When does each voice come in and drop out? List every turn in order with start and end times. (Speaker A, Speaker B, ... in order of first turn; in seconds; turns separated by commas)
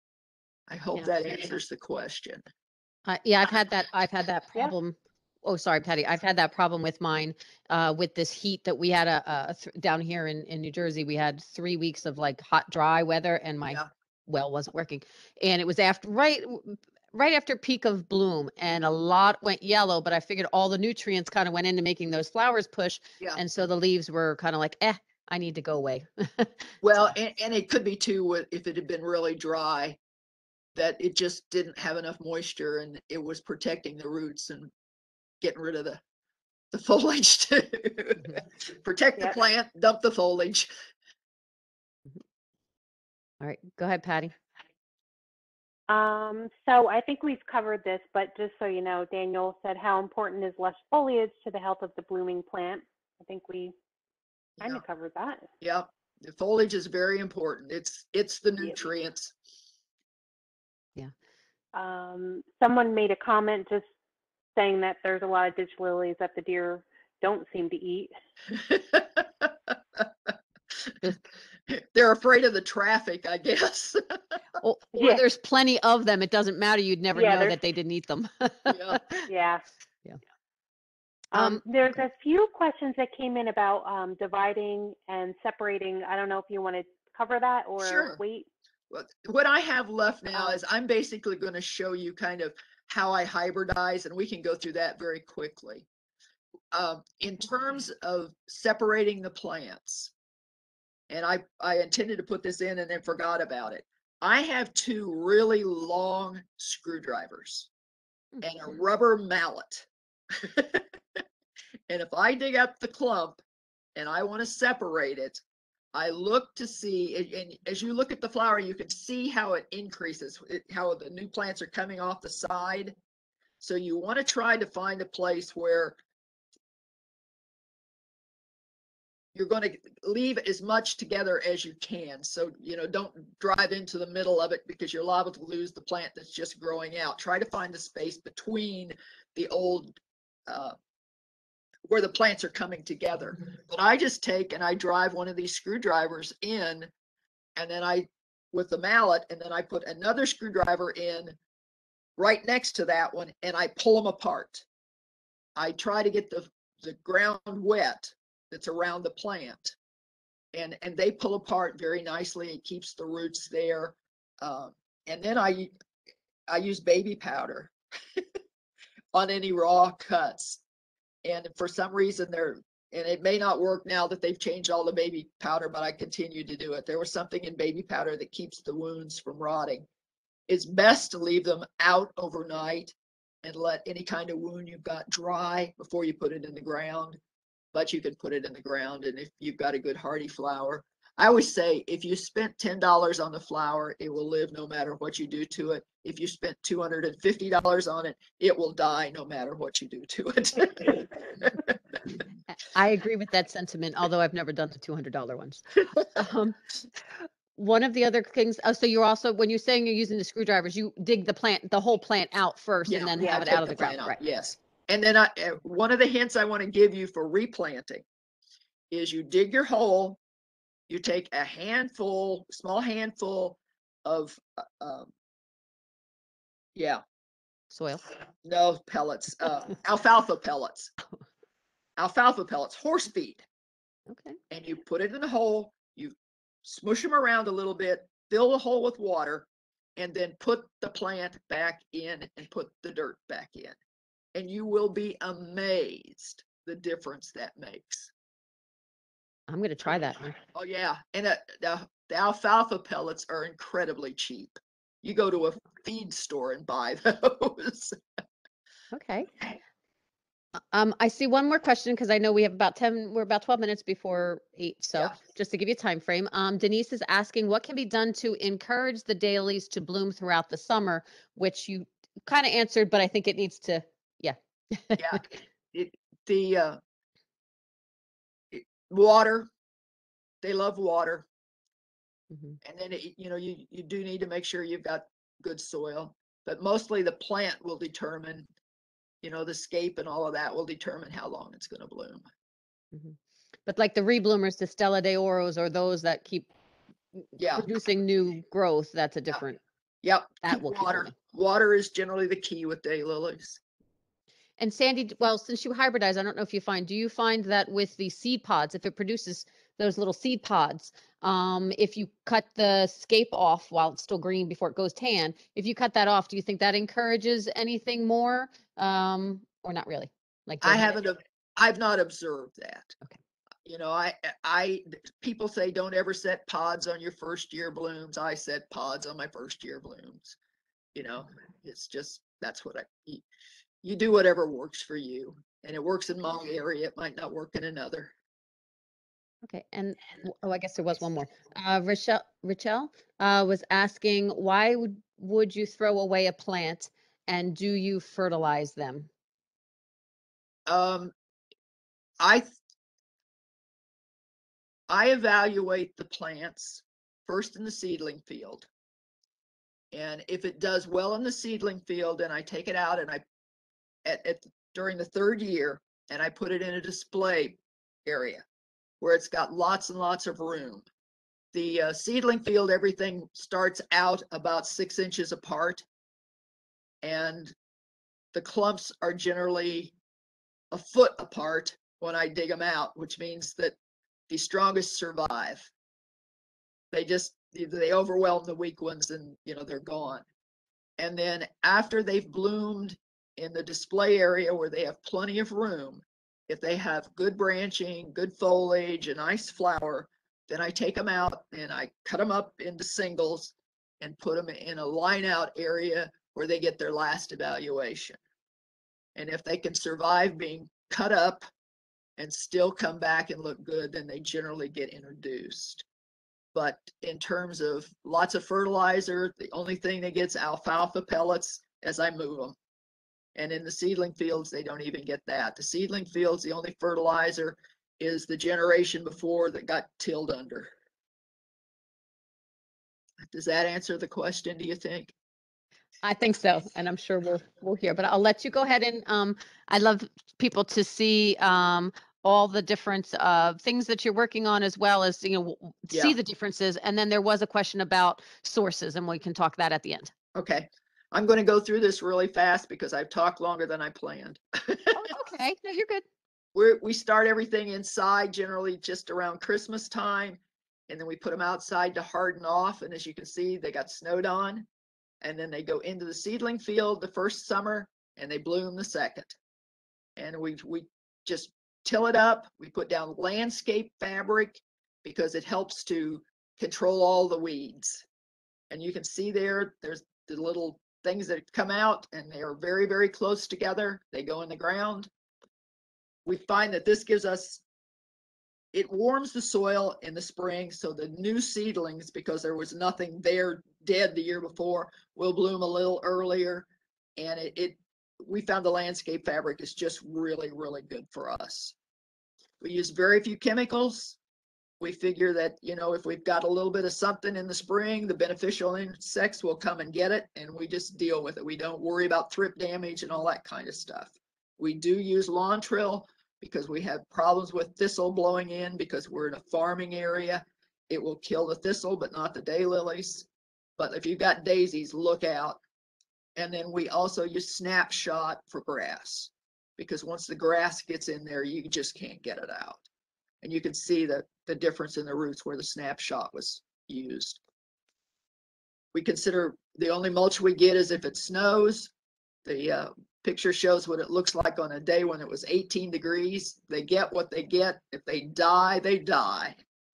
Speaker A: 0.7-2.4, Speaker B: 3.1-27.1, Speaker A: 26.8-30.0, Speaker A: 30.8-34.7, Speaker A: 35.4-36.0, Speaker A: 36.7-40.7, Speaker B: 43.4-44.3, Speaker C: 45.9-53.7, Speaker C: 54.6-55.5, Speaker A: 55.6-59.3, Speaker C: 61.7-63.9, Speaker C: 64.5-68.1, Speaker A: 68.5-71.0, Speaker A: 71.7-74.0, Speaker B: 74.6-79.3, Speaker C: 74.9-75.2, Speaker C: 77.1-77.6, Speaker A: 78.7-79.0, Speaker C: 79.3-79.6, Speaker B: 81.3-82.0, Speaker C: 81.3-88.5, Speaker A: 87.8-88.2, Speaker A: 88.9-95.9, Speaker A: 96.7-100.1, Speaker A: 101.1-107.7, Speaker A: 108.4-110.9, Speaker A: 111.9-113.4, Speaker A: 114.0-115.4, Speaker A: 115.9-122.9, Speaker A: 123.6-126.0, Speaker A: 129.3-139.9, Speaker A: 140.5-140.7, Speaker A: 141.9-146.9, Speaker A: 147.6-151.3, Speaker A: 152.2-154.7, Speaker A: 155.6-159.8, Speaker A: 160.5-165.7, Speaker A: 166.5-168.2, Speaker A: 169.1-170.6, Speaker A: 171.2-179.9, Speaker A: 180.5-187.2, Speaker A: 187.7-201.6, Speaker B: 202.5-206.6, Speaker B: 207.5-214.2, Speaker A: 212.9-218.0, Speaker A: 218.9-220.2, Speaker A: 220.9-225.1, Speaker A: 226.8-227.0, Speaker B: 227.7-228.0, Speaker A: 228.4-230.9, Speaker A: 232.0-233.4, Speaker B: 234.1-234.4, Speaker A: 234.5-243.8, Speaker A: 244.3-248.1, Speaker B: 249.5-250.4, Speaker A: 250.5-258.0, Speaker B: 258.9-259.3, Speaker B: 260.7-275.1, Speaker A: 275.0-276.8, Speaker A: 278.5-279.5, Speaker A: 280.4-281.2, Speaker B: 282.3-282.6, Speaker A: 282.6-288.5, Speaker A: 289.2-292.2, Speaker B: 292.9-296.5, Speaker A: 297.4-297.7, Speaker B: 297.5-299.6, Speaker A: 300.0-303.6, Speaker B: 300.4-301.1, Speaker B: 304.6-321.0, Speaker A: 320.6-323.0, Speaker A: 323.6-330.4, Speaker A: 330.9-333.2, Speaker A: 333.8-338.1, Speaker B: 339.4-349.1, Speaker A: 350.7-351.1, Speaker A: 352.2-352.5, Speaker A: 354.9-358.7, Speaker A: 359.9-363.2, Speaker A: 364.0-368.4, Speaker A: 369.0-370.9, Speaker A: 371.5-375.9, Speaker A: 377.0-377.5, Speaker A: 378.3-379.9, Speaker A: 380.7-383.7, Speaker A: 384.3-385.7, Speaker A: 386.9-390.2, Speaker A: 391.0-408.2, Speaker A: 409.1-411.4, Speaker A: 412.2-415.8, Speaker A: 416.5-422.6, Speaker A: 423.3-430.7, Speaker A: 433.2-435.1, Speaker B: 436.0-450.1, Speaker A: 445.9-446.1, Speaker A: 450.3-455.0, Speaker B: 454.9-456.0, Speaker A: 456.5-464.7, Speaker A: 465.2-469.4, Speaker A: 470.2-478.1, Speaker A: 478.7-485.1, Speaker A: 486.2-487.6, Speaker A: 488.7-501.7, Speaker A: 502.6-504.2, Speaker A: 504.8-523.3, Speaker A: 523.8-525.6, Speaker A: 526.4-532.8, Speaker A: 533.4-537.4, Speaker A: 538.9-541.9, Speaker A: 542.5-549.6